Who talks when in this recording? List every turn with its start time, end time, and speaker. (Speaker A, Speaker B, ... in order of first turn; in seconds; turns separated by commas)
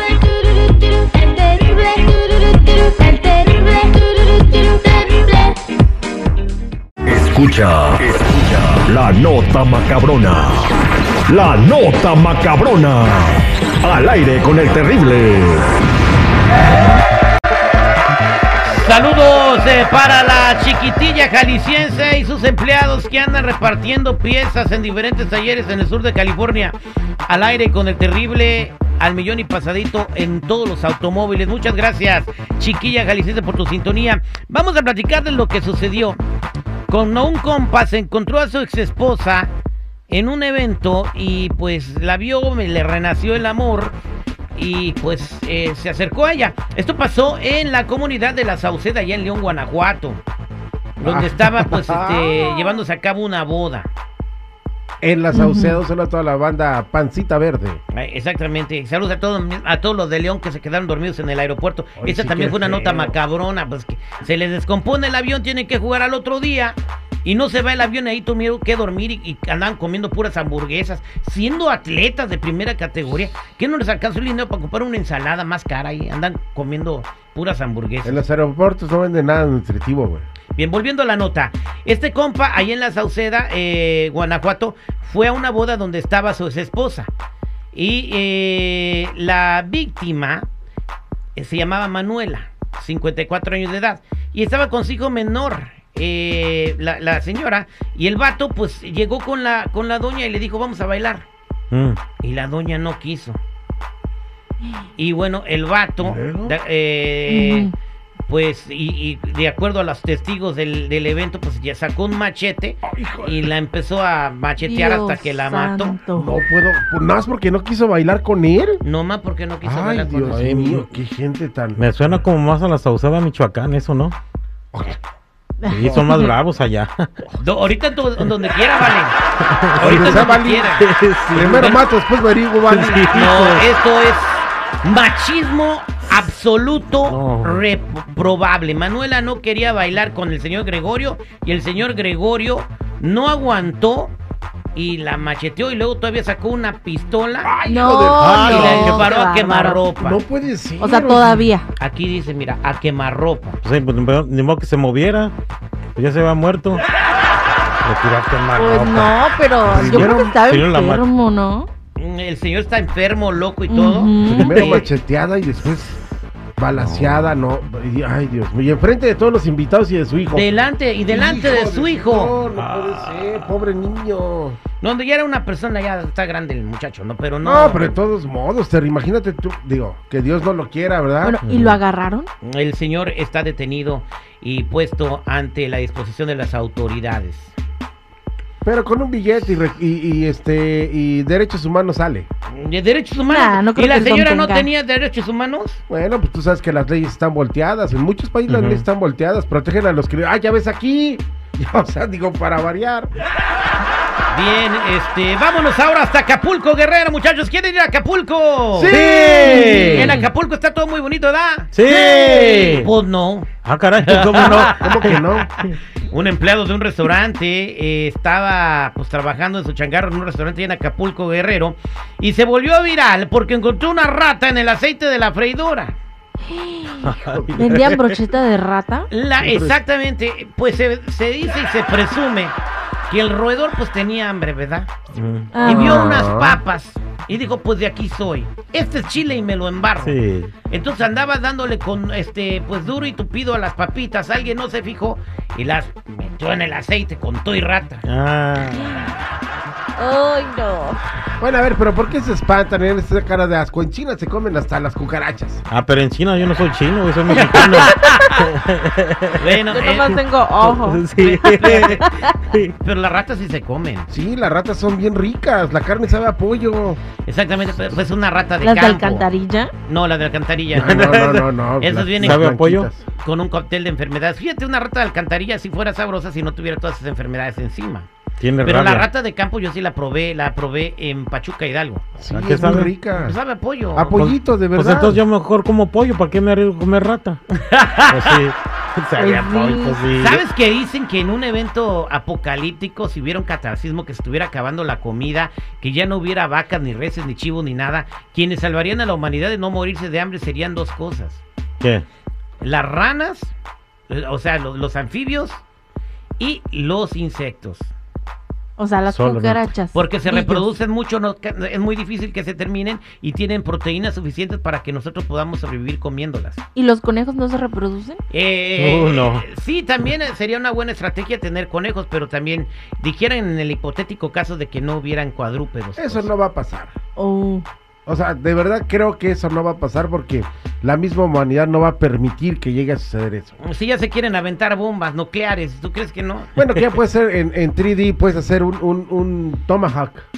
Speaker A: 1.2-2.0, Speaker A: 3.0-5.1, Speaker B: 7.1-10.7, Speaker B: 11.3-15.7, Speaker C: 18.6-26.8, Speaker C: 27.3-36.2, Speaker C: 36.9-39.5, Speaker C: 40.1-44.0, Speaker C: 44.5-50.2, Speaker D: 51.0-52.4, Speaker C: 51.0-53.9, Speaker D: 55.0-57.8, Speaker A: 55.3-55.8, Speaker C: 57.9-78.2, Speaker D: 62.0-63.1, Speaker D: 78.0-80.2, Speaker C: 80.5-87.1, Speaker C: 87.7-90.5, Speaker C: 91.3-101.3, Speaker E: 101.7-102.0, Speaker C: 102.2-103.4, Speaker C: 105.0-107.7, Speaker D: 106.0-106.5, Speaker A: 107.3-107.7, Speaker C: 108.3-116.0, Speaker D: 112.8-113.5, Speaker A: 114.6-116.3, Speaker D: 116.2-118.8, Speaker C: 118.8-120.5, Speaker D: 119.6-121.9, Speaker E: 120.3-120.9, Speaker E: 121.8-124.2, Speaker D: 124.7-125.0, Speaker A: 125.6-126.3, Speaker E: 125.7-127.2, Speaker C: 127.4-129.1, Speaker E: 129.4-131.7, Speaker C: 129.7-130.9, Speaker D: 129.8-130.8, Speaker D: 131.3-133.1, Speaker C: 131.4-131.9, Speaker E: 132.7-133.6, Speaker C: 133.1-144.1, Speaker E: 137.0-137.6, Speaker C: 144.7-147.5, Speaker D: 147.4-149.1, Speaker A: 147.7-149.8, Speaker E: 148.2-149.1, Speaker C: 148.4-150.2, Speaker D: 150.0-151.5, Speaker A: 150.8-151.7, Speaker C: 151.8-153.6, Speaker E: 153.6-155.3, Speaker E: 155.9-156.8, Speaker E: 157.8-161.1, Speaker A: 158.5-161.7, Speaker D: 159.7-160.3, Speaker C: 162.0-164.9, Speaker A: 163.7-164.8, Speaker D: 164.2-166.0, Speaker D: 166.6-170.6, Speaker E: 166.7-167.3, Speaker C: 170.3-172.3, Speaker D: 171.1-174.6, Speaker E: 172.6-173.5, Speaker C: 174.8-177.9, Speaker D: 177.4-181.4, Speaker A: 181.2-182.3, Speaker E: 181.4-181.8, Speaker C: 182.4-187.5, Speaker D: 188.6-192.3, Speaker C: 192.5-195.8, Speaker A: 193.3-194.7, Speaker D: 195.9-203.1, Speaker E: 198.5-198.8, Speaker C: 204.3-209.0, Speaker D: 208.7-210.2, Speaker E: 208.9-210.2, Speaker C: 209.6-213.5, Speaker E: 211.7-212.9, Speaker E: 213.6-215.7, Speaker C: 214.0-215.4, Speaker D: 214.4-215.5, Speaker C: 216.0-226.0, Speaker A: 226.5-229.1, Speaker E: 227.0-228.1, Speaker D: 227.1-227.7, Speaker C: 229.1-232.6, Speaker D: 229.4-229.8, Speaker C: 233.1-234.9, Speaker E: 235.1-235.6, Speaker A: 235.5-236.1, Speaker D: 235.6-236.6, Speaker C: 235.6-240.2, Speaker E: 240.0-240.5, Speaker C: 240.7-248.0, Speaker E: 248.0-249.1, Speaker A: 250.0-251.0, Speaker D: 251.4-255.6, Speaker E: 255.7-259.4, Speaker A: 257.3-258.3, Speaker C: 259.4-260.2, Speaker A: 259.7-262.3, Speaker E: 260.6-262.7, Speaker C: 261.2-262.1, Speaker C: 262.8-264.1, Speaker D: 264.1-267.0, Speaker C: 267.2-269.3, Speaker A: 268.6-269.7, Speaker C: 269.9-271.1, Speaker D: 270.7-273.0, Speaker E: 270.9-271.4, Speaker C: 271.8-272.4, Speaker E: 272.2-272.9, Speaker C: 273.2-278.1, Speaker E: 278.4-279.1, Speaker C: 278.6-282.0, Speaker D: 282.2-283.4, Speaker E: 282.3-282.9, Speaker C: 283.1-284.2, Speaker D: 283.9-285.2, Speaker E: 284.1-287.4, Speaker C: 287.5-288.4, Speaker E: 288.1-290.4, Speaker A: 289.1-290.0, Speaker C: 290.1-301.4, Speaker E: 301.8-302.1, Speaker C: 302.6-303.5, Speaker C: 304.1-305.6, Speaker C: 306.4-307.9, Speaker A: 308.8-310.6, Speaker E: 309.1-309.6, Speaker C: 309.9-316.6, Speaker A: 316.7-318.2, Speaker C: 318.3-326.3, Speaker E: 318.8-319.4, Speaker D: 326.0-326.9, Speaker A: 327.2-327.6, Speaker D: 328.1-333.6, Speaker C: 333.6-336.6, Speaker D: 336.6-340.2